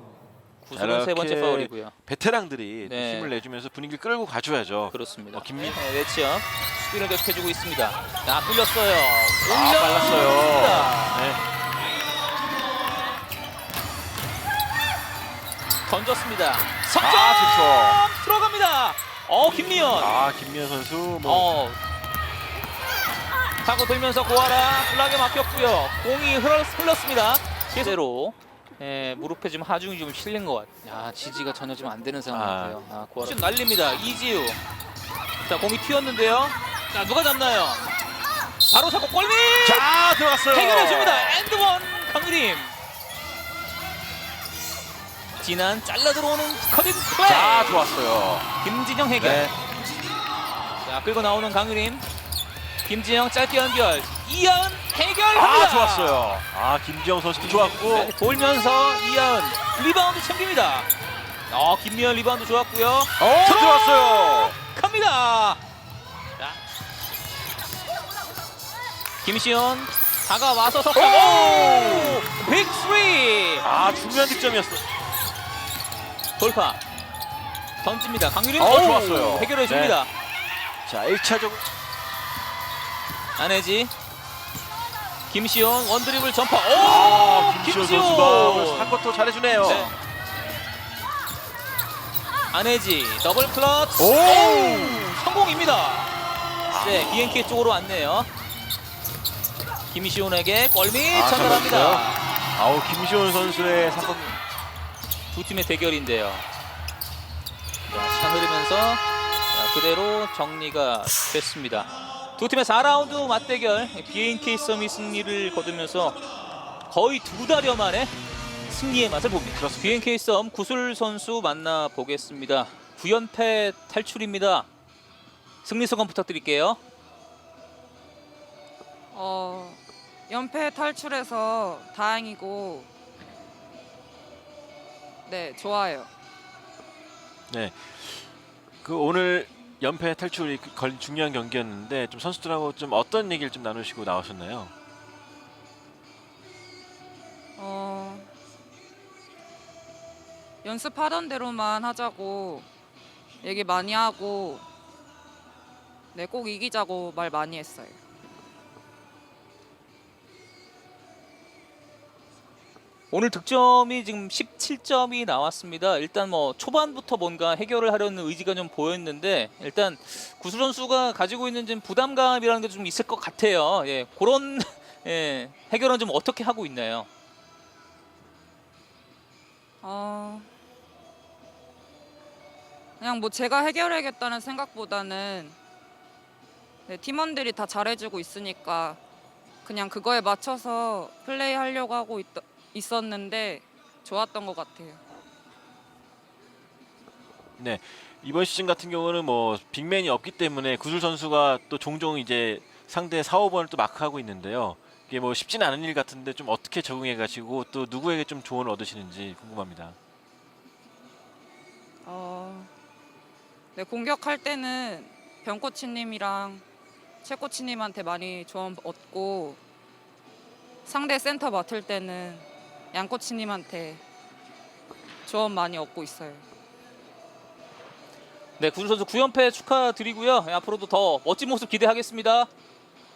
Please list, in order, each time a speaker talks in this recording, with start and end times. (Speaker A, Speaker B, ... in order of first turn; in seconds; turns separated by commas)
Speaker A: 0.6-1.9, Speaker B: 0.7-5.8, Speaker A: 2.8-3.3, Speaker A: 4.9-11.4, Speaker B: 9.4-11.4, Speaker A: 15.8-20.1, Speaker B: 17.0-18.0, Speaker B: 19.9-21.5, Speaker A: 21.2-21.8, Speaker A: 23.6-34.6, Speaker B: 32.3-32.9, Speaker A: 35.4-37.9, Speaker A: 38.6-42.7, Speaker B: 39.6-41.5, Speaker A: 45.4-47.9, Speaker B: 47.2-48.5, Speaker A: 48.6-49.5, Speaker B: 49.1-49.5, Speaker A: 50.8-52.0, Speaker A: 52.8-56.4, Speaker B: 55.3-58.1, Speaker A: 57.8-60.9, Speaker A: 61.5-65.6, Speaker B: 63.2-64.6, Speaker A: 69.2-73.7, Speaker B: 70.9-72.2, Speaker B: 73.6-74.8, Speaker A: 76.4-76.8, Speaker A: 77.8-80.1, Speaker B: 78.5-80.0, Speaker B: 80.8-81.6, Speaker A: 83.4-83.9, Speaker A: 85.3-89.0, Speaker B: 86.7-89.9, Speaker A: 89.6-90.0, Speaker A: 92.5-96.1, Speaker B: 94.0-95.2, Speaker B: 96.7-97.1, Speaker A: 96.7-98.3, Speaker A: 99.9-102.2, Speaker B: 101.1-104.4, Speaker A: 105.3-106.4, Speaker A: 107.9-109.0, Speaker A: 109.5-116.2, Speaker A: 116.9-118.1, Speaker A: 118.7-124.7, Speaker B: 119.4-120.1, Speaker A: 125.6-126.8, Speaker C: 129.1-132.9, Speaker C: 135.2-136.1, Speaker B: 137.5-138.3, Speaker B: 138.8-144.7, Speaker C: 147.6-148.3, Speaker C: 150.6-152.7, Speaker C: 153.4-154.6, Speaker C: 156.1-158.0, Speaker A: 163.1-177.1, Speaker C: 179.8-180.5, Speaker C: 183.0-185.6, Speaker C: 186.9-189.0, Speaker C: 189.6-195.0, Speaker B: 197.6-210.0, Speaker C: 212.0-212.7, Speaker C: 213.7-216.6, Speaker C: 217.2-219.6, Speaker C: 220.8-224.0, Speaker C: 225.2-226.4, Speaker A: 228.6-232.5